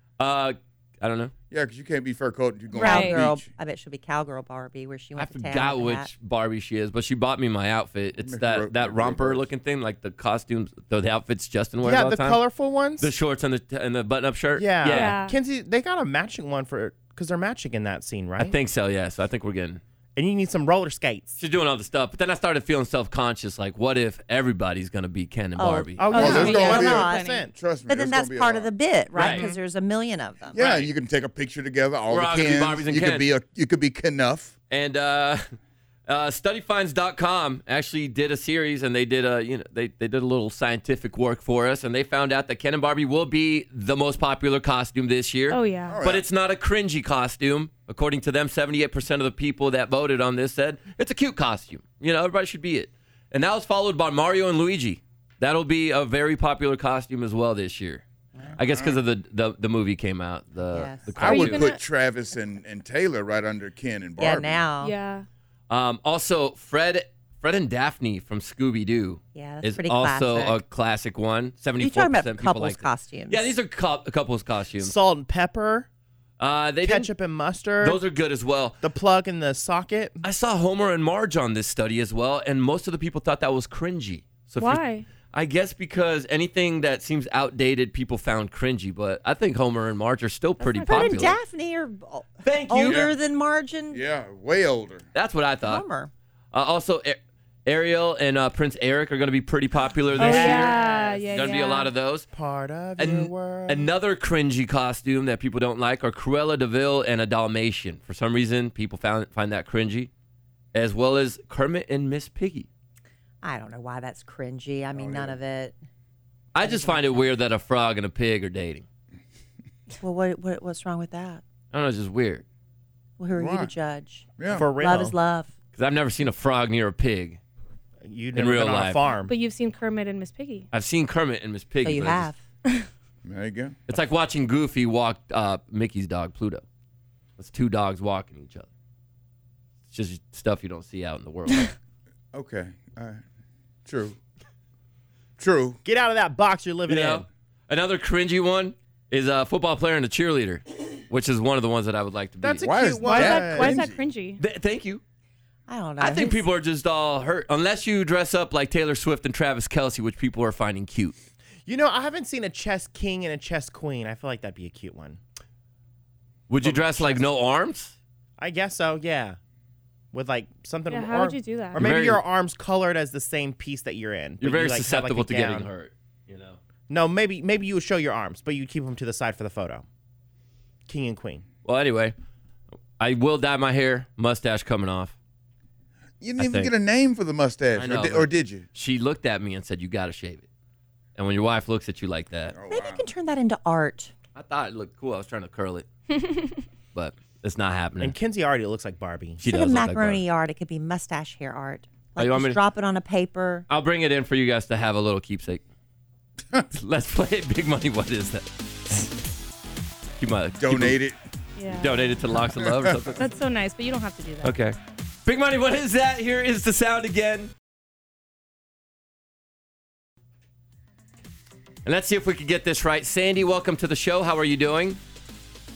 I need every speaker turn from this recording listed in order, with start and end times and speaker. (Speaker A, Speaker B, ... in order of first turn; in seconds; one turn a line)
Speaker A: 0.2-1.3
Speaker B: 1.5-3.5
Speaker C: 2.7-6.1
Speaker D: 2.8-3.2
Speaker A: 5.2-12.4
Speaker B: 8.2-9.5
Speaker E: 11.8-13.1
Speaker A: 13.0-15.2
Speaker E: 14.6-18.5
Speaker D: 14.9-15.4
Speaker A: 18.4-19.8
Speaker E: 20.1-21.4
Speaker A: 21.4-26.3
Speaker C: 25.6-30.6
Speaker E: 25.9-27.5
Speaker D: 26.1-27.4
Speaker B: 26.1-28.7
Speaker A: 29.1-29.5
Speaker B: 30.5-34.5
Speaker A: 30.6-30.9
Speaker A: 32.1-33.3
Speaker A: 34.7-35.4
Speaker A: 36.1-58.0
Speaker D: 45.5-46.0
Speaker B: 45.9-46.2
Speaker A: 58.6-61.6
Speaker B: 58.6-59.0
Speaker C: 60.7-61.2
Speaker B: 61.2-64.7
Speaker D: 61.2-61.8
Speaker C: 64.2-65.0
Speaker D: 64.8-65.2
Speaker A: 65.7-74.9
Speaker C: 69.3-70.6
Speaker C: 71.8-73.5
Speaker E: 74.8-75.9
Speaker A: 76.4-77.1
Speaker E: 76.8-78.0
Speaker A: 77.8-78.8
Speaker E: 78.8-80.2
Speaker A: 80.2-91.3
Speaker D: 84.6-85.0
Speaker D: 90.6-91.3
Speaker C: 90.9-94.0
Speaker A: 92.4-93.1
Speaker B: 92.8-93.1
Speaker B: 93.9-95.0
Speaker A: 95.1-95.8
Speaker C: 95.6-96.1
Speaker A: 96.5-102.3
Speaker E: 100.2-101.6
Speaker D: 100.2-101.9
Speaker E: 102.3-103.9
Speaker A: 103.0-110.1
Speaker A: 110.7-112.7
Speaker C: 113.4-115.8
Speaker B: 114.9-115.3
Speaker A: 116.5-118.8
Speaker C: 116.6-117.2
Speaker C: 120.0-121.4
Speaker A: 121.7-122.4
Speaker C: 123.2-125.5
Speaker B: 123.3-123.7
Speaker B: 124.4-124.7
Speaker E: 124.5-125.1
Speaker A: 125.7-127.4
Speaker E: 128.0-129.3
Speaker A: 128.3-129.0
Speaker D: 129.2-130.7
Speaker A: 130.7-132.3
Speaker C: 131.8-132.4
Speaker B: 133.2-133.8
Speaker A: 133.9-136.6
Speaker A: 137.4-138.7
Speaker A: 139.9-141.7
Speaker B: 142.3-143.2
Speaker B: 143.8-144.2
Speaker B: 145.4-145.8
Speaker E: 145.8-147.2
Speaker A: 146.9-152.7
Speaker E: 152.4-153.8
Speaker B: 152.6-154.0
Speaker D: 153.0-154.4
Speaker A: 154.4-155.0
Speaker C: 155.7-156.4
Speaker A: 156.0-161.1
Speaker E: 161.7-165.2
Speaker A: 166.5-167.9
Speaker E: 166.6-167.3
Speaker E: 168.4-169.4
Speaker E: 170.1-175.7
Speaker D: 170.9-171.9
Speaker A: 171.8-172.2
Speaker A: 174.4-176.6
Speaker E: 176.9-179.8
Speaker E: 180.9-181.4
Speaker A: 181.6-182.1
Speaker A: 183.0-185.1
Speaker B: 186.2-188.6
Speaker A: 186.4-186.7
Speaker A: 187.7-190.4
Speaker A: 191.2-192.6
Speaker B: 192.5-193.1
Speaker C: 192.7-194.1
Speaker A: 194.3-195.9
Speaker A: 196.9-198.2
Speaker E: 198.0-199.4
Speaker A: 199.4-200.2
Speaker C: 199.5-203.7
Speaker A: 202.2-202.6
Speaker A: 203.7-205.6
Speaker A: 206.7-209.1
Speaker A: 210.2-211.0
Speaker B: 210.6-211.2
Speaker D: 211.6-212.2
Speaker A: 211.7-213.2
Speaker B: 212.6-213.2
Speaker D: 213.2-214.5
Speaker A: 214.4-217.5
Speaker A: 221.8-225.0